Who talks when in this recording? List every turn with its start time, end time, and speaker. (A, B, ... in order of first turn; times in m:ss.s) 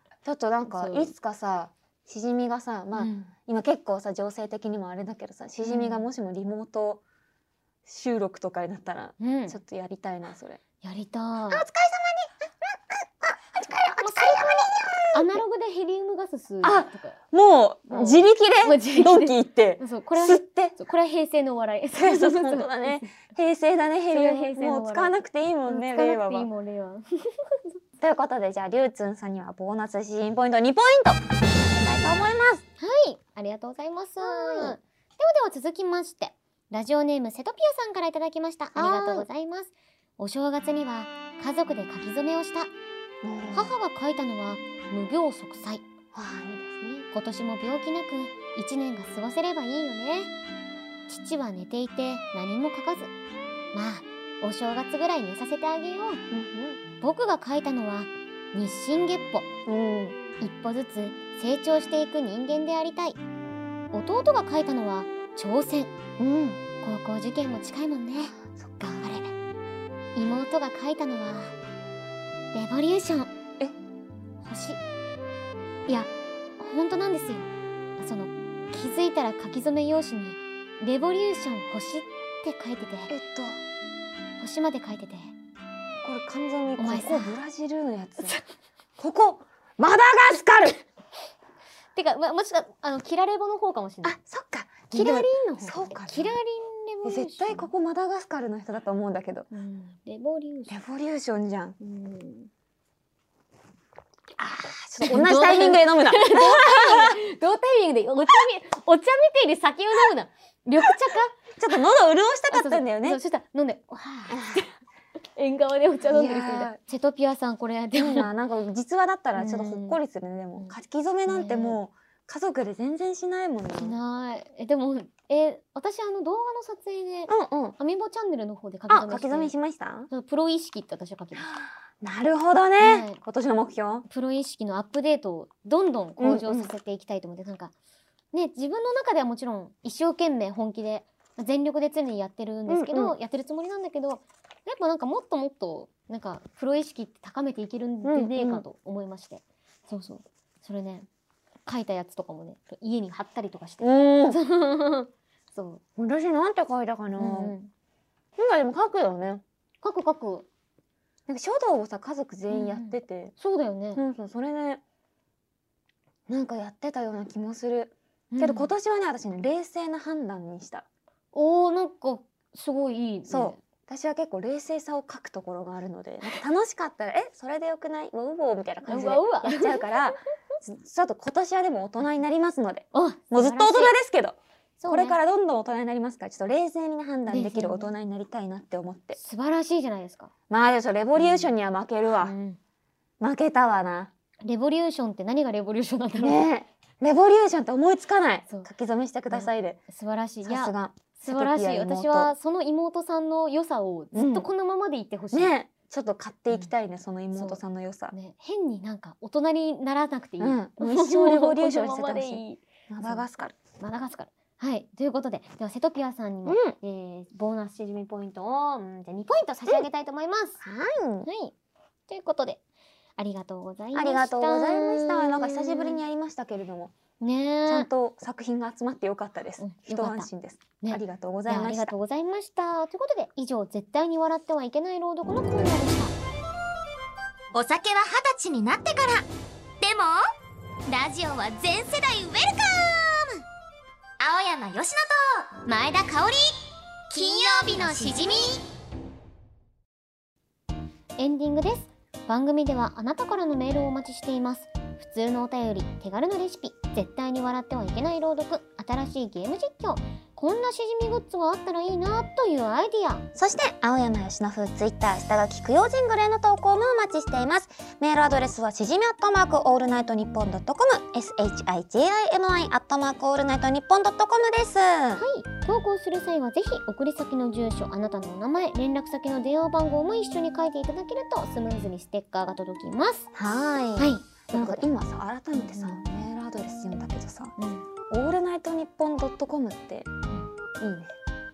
0:00.2-0:07.0 A
0:00.7-0:01.1 B
0:02.9-0:03.3 B
0:05.6-0:06.0 B
0:07.8-0:10.6 A
0:09.2-0:09.6 B
0:10.8-0:11.6 B
0:11.5-0:15.3 A
0:14.0-0:17.2 B
0:16.6-0:20.8 A
0:17.9-0:23.0 B
0:21.9-0:26.5 A
0:24.1-0:25.1 B
0:25.7-0:27.8 B
0:28.0-0:32.6 A
0:32.8-0:42.7 B
0:34.2-0:34.8 A
0:38.7-0:39.2 A
0:43.2-0:43.7 A
0:43.5-0:45.8 B
0:46.1-0:47.0 A
0:47.1-0:50.3 B
0:51.1-0:53.1 B
0:53.7-0:56.2 B
0:56.3-0:56.8 A
0:57.0-0:59.5 B
0:59.6-1:00.2 A
1:00.4-1:03.2 B
1:03.9-1:05.9 B
1:06.2-1:06.6 A
1:06.8-1:09.2 B
1:08.5-1:09.2 A
1:10.2-1:11.5 B
1:12.5-1:13.3 B
1:14.4-1:14.8 B
1:15.9-1:23.1 B
1:23.1-1:23.6 A
1:24.4-1:25.3 B
1:26.0-1:28.4 A
1:26.8-1:27.3 B
1:29.0-1:30.8 A
1:31.9-1:34.2 B
1:34.0-1:36.4 A
1:34.9-1:37.7 B
1:37.0-1:39.5 A
1:39.5-1:40.8 B
1:40.7-1:41.8 A
1:41.8-1:42.5 B
1:44.4-1:47.2 A
1:45.0-1:51.3 B
1:51.6-1:53.2 A
1:52.5-1:54.7 B
1:54.3-1:54.6 A
1:55.4-1:58.3 B
1:56.1-1:56.8 A
1:57.9-2:04.0 A
1:59.4-2:00.0 B
2:01.3-2:01.8 B
2:03.8-2:09.5 B
2:07.3-2:07.8 A
2:08.9-2:10.1 A
2:10.1-2:11.5 B
2:11.4-2:14.0 A
2:12.8-2:13.2 B
2:14.1-2:17.7 B
2:16.2-2:16.7 A
2:18.3-2:31.1 B
2:22.7-2:23.1 A
2:28.0-2:28.6 A
2:31.6-2:35.8 B
2:33.8-2:34.4 A
2:36.0-2:37.5 A
2:37.2-2:37.7 B
2:38.4-2:39.4 A
2:39.8-2:40.5 B
2:41.3-2:43.3 A
2:42.5-2:44.0 B
2:43.9-2:44.8 A
2:46.3-2:50.8 A
2:48.3-2:48.7 B
2:51.3-2:53.6 B
2:53.3-3:09.2 A
2:58.8-3:00.0 B
3:02.9-3:03.9 B
3:04.8-3:05.2 B
3:07.3-3:07.9 B
3:09.1-3:10.3 B
3:10.5-3:12.3 A
3:11.2-3:11.5 B
3:12.2-3:12.6 B
3:13.2-3:14.1 A
3:14.4-3:16.5 B
3:16.2-3:19.8 A
3:19.3-3:25.5 B
3:20.4-3:22.3 A
3:24.1-3:24.5 A
3:25.3-3:28.1 A
3:27.3-3:27.6 B
3:28.1-3:33.2 B
3:30.4-3:33.5 A
3:33.8-3:40.6 B
3:36.4-3:36.8 A
3:40.6-3:41.3 A
3:41.2-3:41.5 B
3:42.1-3:42.6 B
3:43.2-3:46.0 B
3:43.9-3:46.9 A
3:47.2-3:47.9 B
3:47.6-3:51.9 A
3:49.6-3:50.3 B
3:50.8-3:56.1 B
3:57.5-3:59.3 C
3:59.8-4:00.2 C
4:00.9-4:03.4 C
4:04.2-4:08.7 C
4:11.2-4:23.3 B
4:23.3-4:35.2 A
4:35.2-4:43.3 B
4:43.3-4:47.5 A
4:44.0-4:44.9 B
4:45.5-4:46.0 B
4:47.6-4:47.8 B
4:48.1-4:50.1 A
4:50.8-4:51.1 A